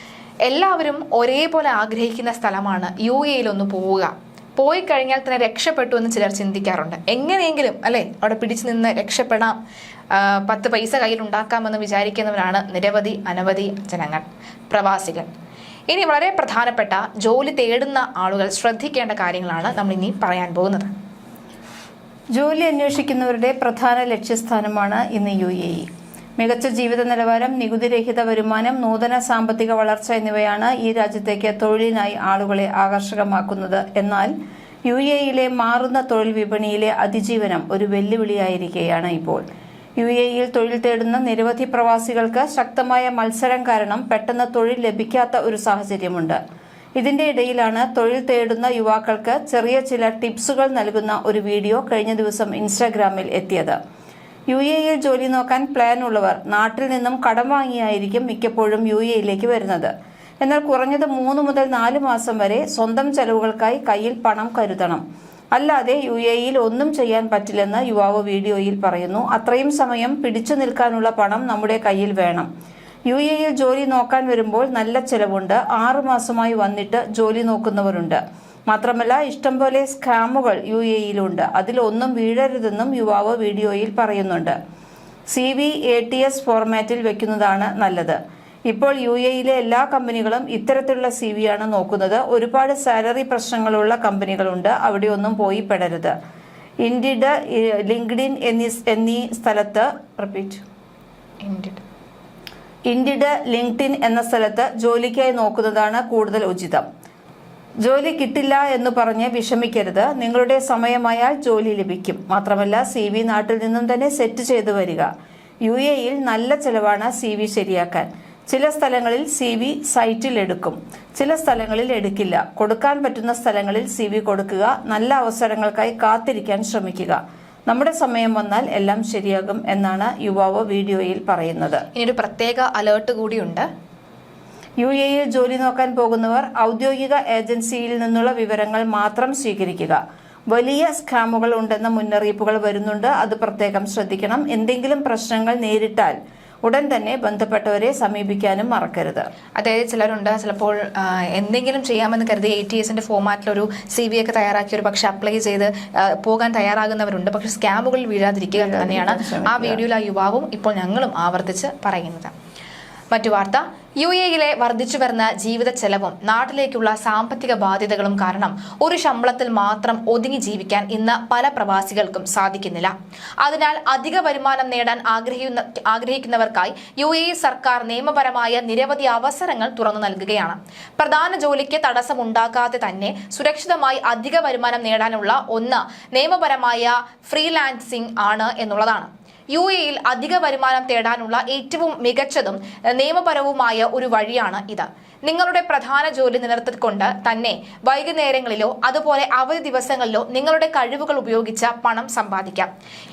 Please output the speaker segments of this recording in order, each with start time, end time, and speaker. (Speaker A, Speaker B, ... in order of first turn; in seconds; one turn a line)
Speaker A: 0.5-9.6
Speaker A: 10.1-15.3
Speaker A: 15.9-20.9
Speaker B: 22.4-25.9
Speaker B: 26.4-34.3
Speaker B: 34.9-39.4
Speaker B: 40.0-46.4
Speaker B: 47.0-53.8
Speaker B: 54.5-65.0
Speaker B: 65.5-72.5
Speaker B: 73.1-84.6
Speaker B: 85.3-96.2
Speaker B: 96.8-100.6
Speaker A: 101.4-101.8
Speaker B: 102.9-106.8
Speaker B: 107.8-115.1
Speaker B: 115.7-131.8
Speaker A: 131.9-133.7
Speaker B: 134.8-140.0
Speaker B: 140.5-149.3
Speaker A: 149.6-162.3
Speaker B: 158.5-159.8
Speaker A: 163.1-202.7